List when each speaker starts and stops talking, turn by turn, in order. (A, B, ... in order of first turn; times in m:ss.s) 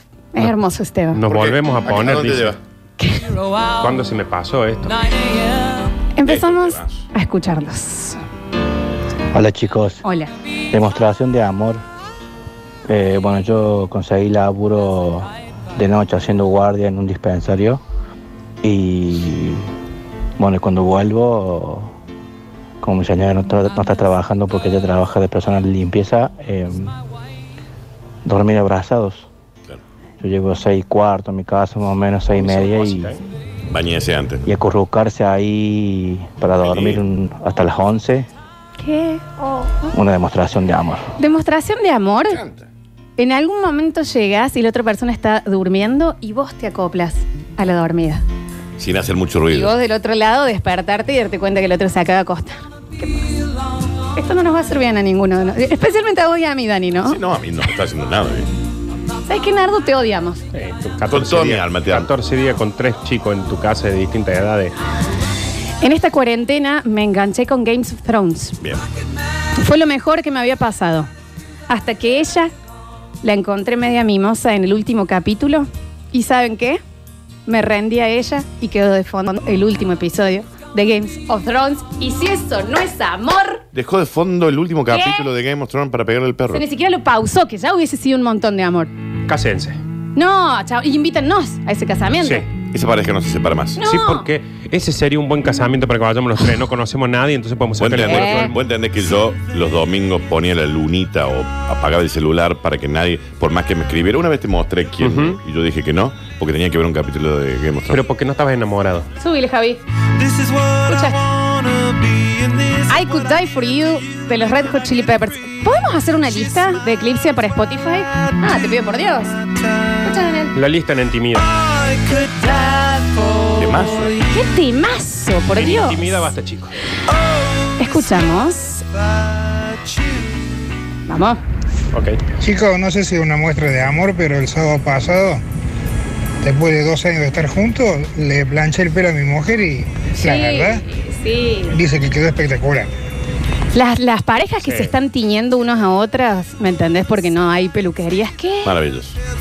0:00.3-0:01.2 A
0:01.1-0:02.5 B
0:01.3-0:02.6 C
0:03.0-0:03.3 A
0:03.8-0:05.1 B
0:06.2-0:08.2 A
0:06.2-0:07.0 C
0:09.3-0:10.0 D
0:10.0-0:10.3 A
0:10.7-0:11.8 D
0:12.9-0:17.8 D
0:18.6-0:19.7 D
0:20.4-0:21.9 D
0:22.8-0:26.9 D
0:28.2-0:29.3 D
0:30.2-0:33.1 D
0:32.4-0:33.1 B
0:33.7-0:34.5 C
0:34.4-0:38.3 D
0:36.6-0:37.0 C
0:38.8-0:39.9 A
0:39.9-0:41.1 D
0:41.2-0:42.4 A
0:42.3-0:42.6 C
0:43.2-0:48.2 A
0:48.8-0:49.7 C
0:49.5-0:53.3 A
0:54.1-0:57.2 A
0:57.0-0:58.5 C
0:59.3-1:00.4 A
1:00.5-1:04.7 B
1:01.1-1:02.1 C
1:05.8-1:08.6 A
1:09.5-1:11.1 A
1:11.7-1:12.5 A
1:13.2-1:16.8 A
1:17.5-1:23.6 A
1:23.7-1:26.6 C
1:24.9-1:25.3 A
1:26.5-1:28.9 A
1:29.3-1:29.8 B
1:30.2-1:32.4 A
1:32.7-1:33.8 C
1:33.8-1:34.3 A
1:33.8-1:38.6 B
1:37.8-1:48.0 C
1:38.0-1:38.5 A
1:45.0-1:45.4 B
1:47.9-1:49.1 B
1:49.2-1:49.8 A
1:50.6-1:51.2 A
1:52.9-1:59.3 A
2:00.0-2:00.5 A
2:00.5-2:01.5 B
2:03.6-2:04.1 C
2:04.2-2:06.0 A
2:05.5-2:06.7 B
2:07.8-2:08.8 A
2:11.1-2:11.4 A
2:11.9-2:12.2 B
2:12.4-2:15.4 E
2:16.4-2:20.8 E
2:20.2-2:21.8 A
2:21.7-2:22.9 E
2:23.7-2:28.7 A
2:24.6-2:24.9 B
2:28.6-2:29.2 C